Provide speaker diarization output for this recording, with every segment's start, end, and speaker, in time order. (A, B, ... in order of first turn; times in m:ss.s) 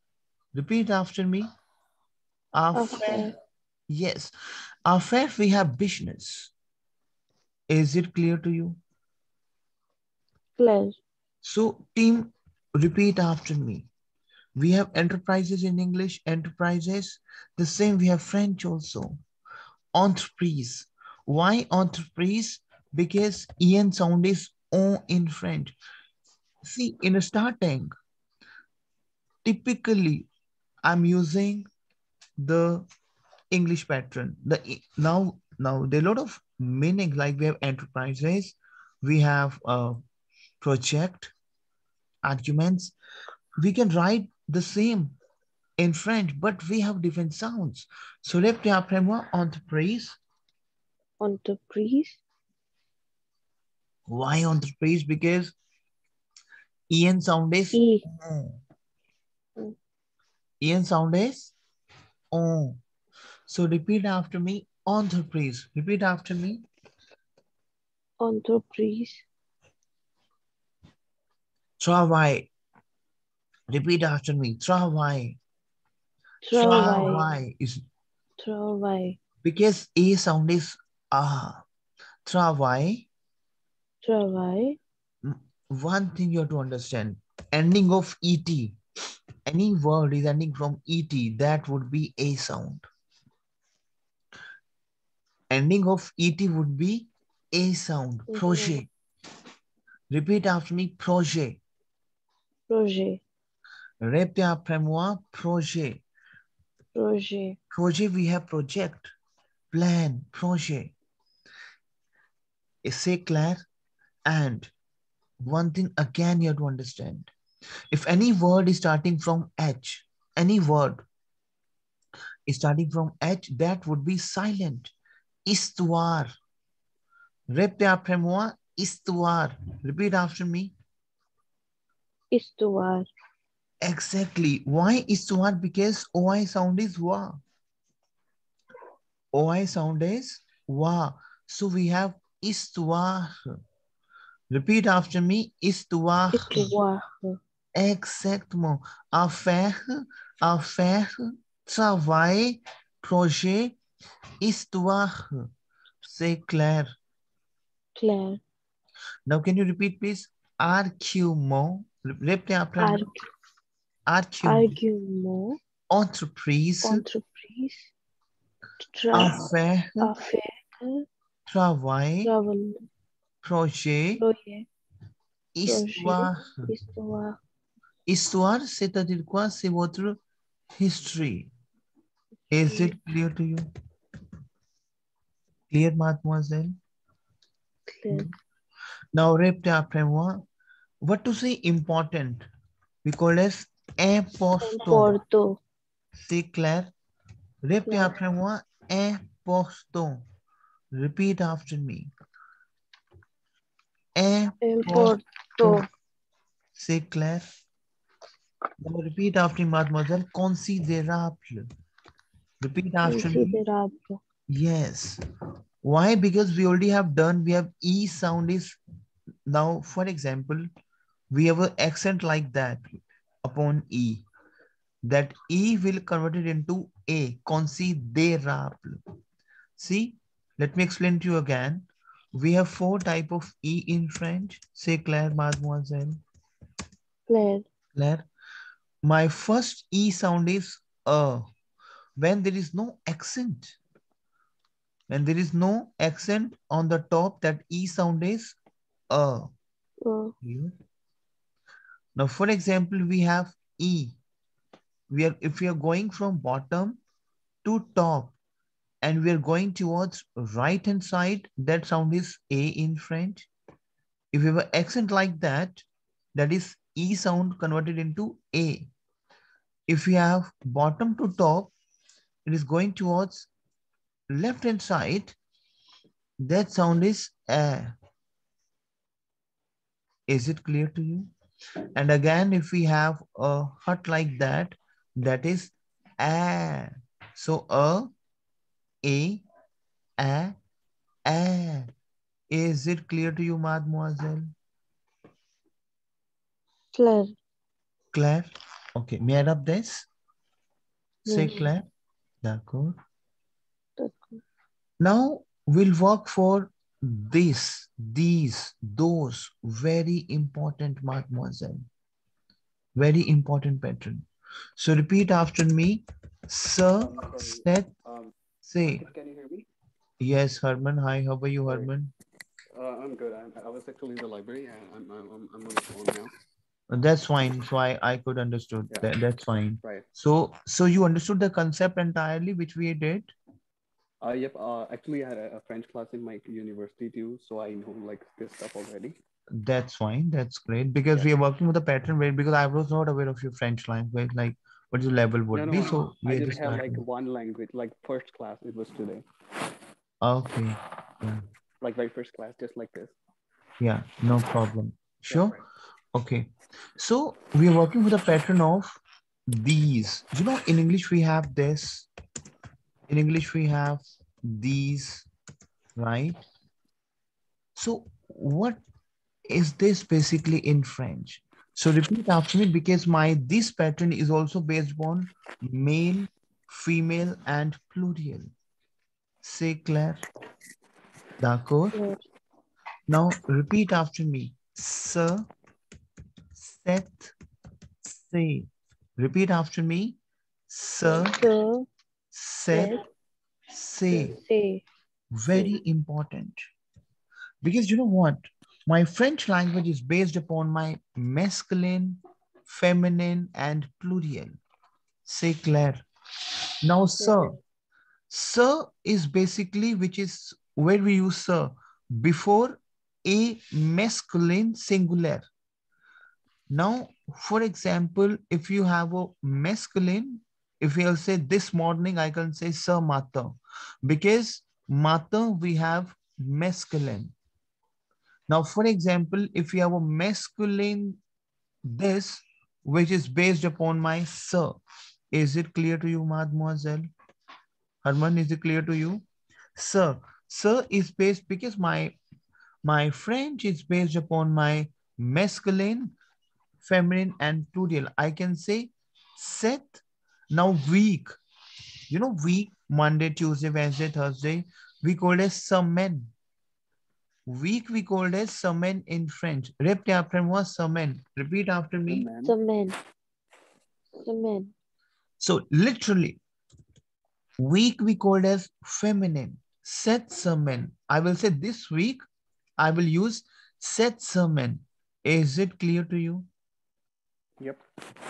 0:00.5-0:01.5 A
0:02.5-0:03.3 A
0:02.7-0:03.3 B
0:03.9-0:04.3 A
0:04.9-0:06.5 A
0:07.7-0:08.8 A
0:10.6-0:11.0 B
0:11.4-0:13.9 A
0:14.6-0:19.2 A
0:19.9-0:25.7 A
0:26.6-0:27.9 A
0:29.4-0:30.3 A
0:30.8-0:31.7 A
0:32.4-0:32.8 A
0:33.5-0:40.0 A
0:40.6-0:41.3 A
0:42.2-0:42.9 A
0:43.6-0:45.2 A
0:45.8-0:50.2 A
0:51.2-0:52.2 B
0:54.1-0:55.5 A
0:56.9-0:58.6 A
0:57.7-0:58.0 B
1:00.6-1:01.6 A
1:02.3-1:02.8 A
1:03.5-1:06.6 A
1:08.2-1:09.2 B
1:11.8-1:12.5 A
1:13.7-1:15.4 A
1:16.4-1:17.2 B
1:16.5-1:17.8 A
1:18.4-1:19.2 B
1:19.4-1:21.6 A
1:22.2-1:23.1 A
1:24.0-1:24.8 B
1:25.2-1:28.8 A
1:29.4-1:32.8 A
1:35.5-1:38.9 A
1:38.3-1:38.8 B
1:40.1-1:41.6 A
1:42.7-1:43.2 B
1:44.0-1:46.0 A
1:46.9-1:47.6 B
1:47.7-1:49.1 A
1:49.7-1:50.9 A
1:52.8-1:53.6 A
1:54.3-1:54.7 A
1:55.4-1:57.3 A
1:57.9-2:01.0 A
2:02.5-2:04.9 A
2:05.4-2:06.3 A
2:07.5-2:10.7 A
2:12.3-2:13.1 B
2:13.8-2:17.4 A
2:19.3-2:23.6 A
2:24.5-2:26.7 A
2:26.3-2:27.4 B
2:27.7-2:33.8 A
2:34.4-2:35.5 A
2:36.0-2:36.9 A
2:38.0-2:38.4 B
2:39.2-2:43.1 A
2:42.8-2:43.2 B
2:44.1-2:44.8 A
2:44.4-2:45.6 B
2:45.9-2:47.0 A
2:46.8-2:47.9 B
2:48.8-2:49.5 B
2:49.1-2:50.1 A
2:50.0-2:51.0 B
2:51.5-2:52.3 A
2:52.2-2:52.9 B
2:53.4-2:54.2 A
2:54.2-2:54.7 B
2:55.6-2:56.7 A
2:55.6-2:57.4 B
2:58.1-3:00.2 A
3:00.8-3:01.5 A
3:02.5-3:03.7 A
3:02.7-3:02.9 B
3:05.7-3:06.8 A
3:07.9-3:08.3 B
3:09.1-3:10.4 A
3:11.0-3:12.4 A
3:13.0-3:15.2 A
3:14.6-3:15.6 B
3:16.2-3:16.9 A
3:17.6-3:20.2 A
3:17.8-3:18.1 B
3:20.9-3:22.1 A
3:24.2-3:25.8 A
3:24.6-3:25.8 B
3:26.8-3:27.5 A
3:28.8-3:31.6 A
3:32.6-3:33.6 A
3:33.0-3:34.2 B
3:34.5-3:35.2 A
3:35.8-3:38.8 A
3:39.5-3:40.7 A
3:41.3-3:42.8 A
3:43.4-3:44.2 A
3:45.0-3:49.0 A
3:49.8-3:56.2 A
3:57.3-3:57.6 B
3:57.9-3:58.2 A
3:59.0-4:01.4 A
4:02.2-4:03.8 A
4:05.1-4:08.6 A
4:09.1-4:09.5 A
4:10.0-4:10.3 B
4:10.4-4:10.7 A
4:12.2-4:14.2 A
4:15.1-4:17.0 A
4:17.6-4:18.3 A
4:19.0-4:23.5 A
4:24.3-4:28.9 A
4:29.9-4:31.7 A
4:32.5-4:33.5 A
4:34.3-4:35.4 A
4:36.4-4:37.9 A
4:40.3-4:41.3 A
4:41.9-4:48.1 A
4:49.0-4:49.4 A
4:50.2-4:50.6 A
4:51.3-4:51.9 A
4:52.5-4:54.5 A
4:56.9-4:57.4 B
4:58.1-5:00.1 A
5:01.2-5:01.7 B
5:01.2-5:01.8 A
5:02.4-5:03.0 A
5:04.0-5:04.4 B
5:05.0-5:11.9 A
5:13.0-5:14.3 A
5:14.8-5:17.9 A
5:17.0-5:18.3 C
5:18.6-5:19.1 A
5:18.8-5:19.7 C
5:20.2-5:22.1 A
5:22.7-5:26.3 C
5:26.9-5:33.3 A
5:34.2-5:39.2 C
5:39.5-5:47.0 A
5:45.5-5:49.2 C
5:50.2-5:51.4 A
5:51.8-5:53.2 C
5:53.8-5:55.6 A
5:55.3-5:55.6 C
5:56.1-5:59.0 A
5:59.5-6:02.1 A
6:03.1-6:05.3 A
6:06.0-6:06.4 A
6:07.8-6:08.8 A
6:09.5-6:18.5 A
6:19.4-6:20.2 A
6:21.4-6:22.0 A
6:21.9-6:22.2 B
6:23.1-6:25.5 A
6:26.6-6:27.3 A
6:28.2-6:30.2 A
6:30.7-6:31.4 A
6:31.1-6:31.9 B
6:32.3-6:33.0 A
6:32.7-6:33.0 B
6:33.7-6:34.4 A
6:34.1-6:34.8 B
6:35.3-6:36.6 A
6:37.6-6:44.5 A
6:45.2-6:46.0 A
6:46.8-6:47.6 A
6:47.2-6:47.6 B
6:48.3-6:55.5 A
6:56.7-7:07.3 A
7:08.5-7:11.2 A
7:11.9-7:14.8 A
7:15.3-7:17.1 A
7:18.0-7:19.2 A
7:19.8-7:22.1 A
7:22.8-7:26.1 A
7:26.8-7:31.3 A
7:32.1-7:36.3 A
7:37.5-7:42.3 A
7:42.1-7:42.5 C
7:42.4-7:43.0 B
7:44.2-7:44.7 B
7:45.4-7:46.4 A
7:47.6-7:52.2 A
7:52.8-7:56.5 A